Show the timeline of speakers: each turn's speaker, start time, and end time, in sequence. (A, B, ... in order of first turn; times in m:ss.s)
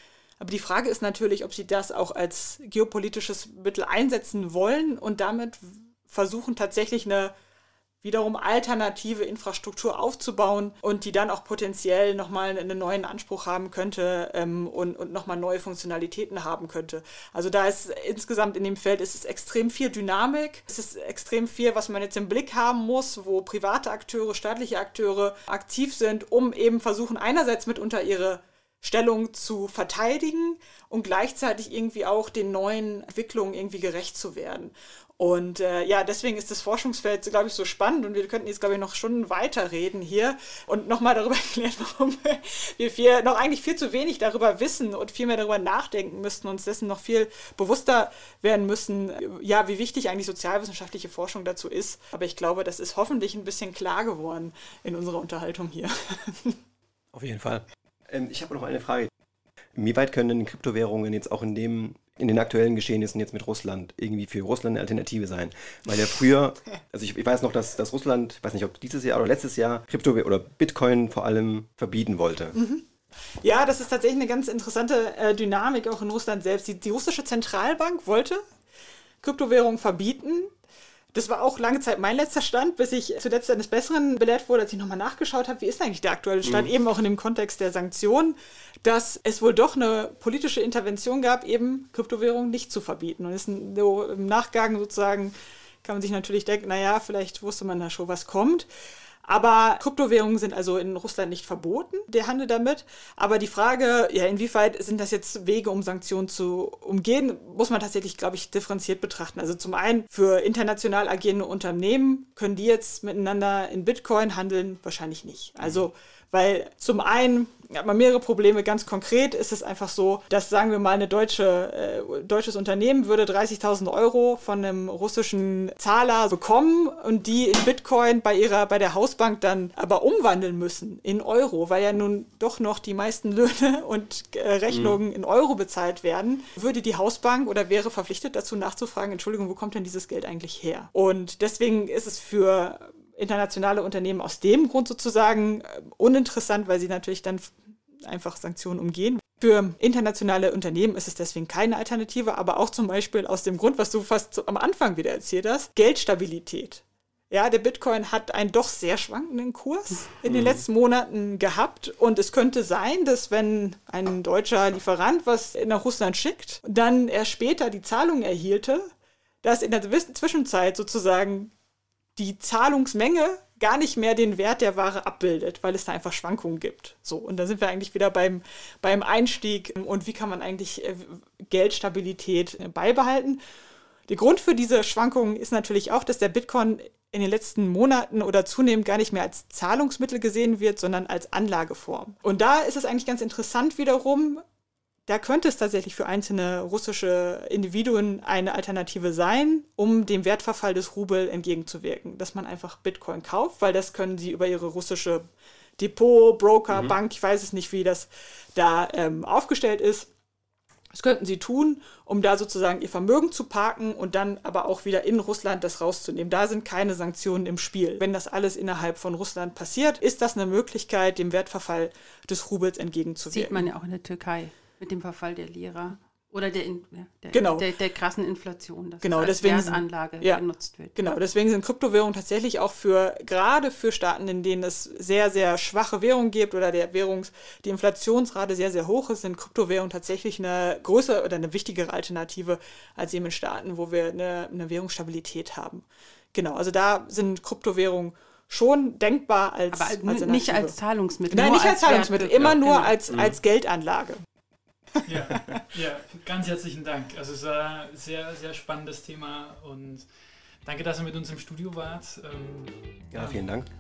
0:00.4-0:07.3 A
0:08.0-0:56.6 A
0:57.1-0:59.1 B
0:59.7-1:12.6 B
1:12.6-1:12.8 A
1:13.4-1:18.4 A
1:19.2-1:20.5 A
1:21.1-1:38.7 A
1:26.4-1:26.7 B
1:39.2-2:27.6 A
2:14.7-2:15.0 B
2:28.1-2:48.9 A
2:40.3-2:40.6 B
2:49.4-2:51.5 A
2:52.2-3:03.4 A
3:04.1-3:14.4 A
3:15.1-3:25.3 A
3:25.8-3:30.1 A
3:30.9-3:43.7 A
3:43.3-3:51.0 C
3:47.3-3:47.7 A
3:49.0-3:50.4 A
3:51.0-4:10.8 A
4:09.7-4:12.9 C
4:11.3-4:14.2 A
4:13.1-4:13.4 B
4:15.1-4:20.1 D
4:20.6-4:23.4 D
4:23.1-4:23.7 B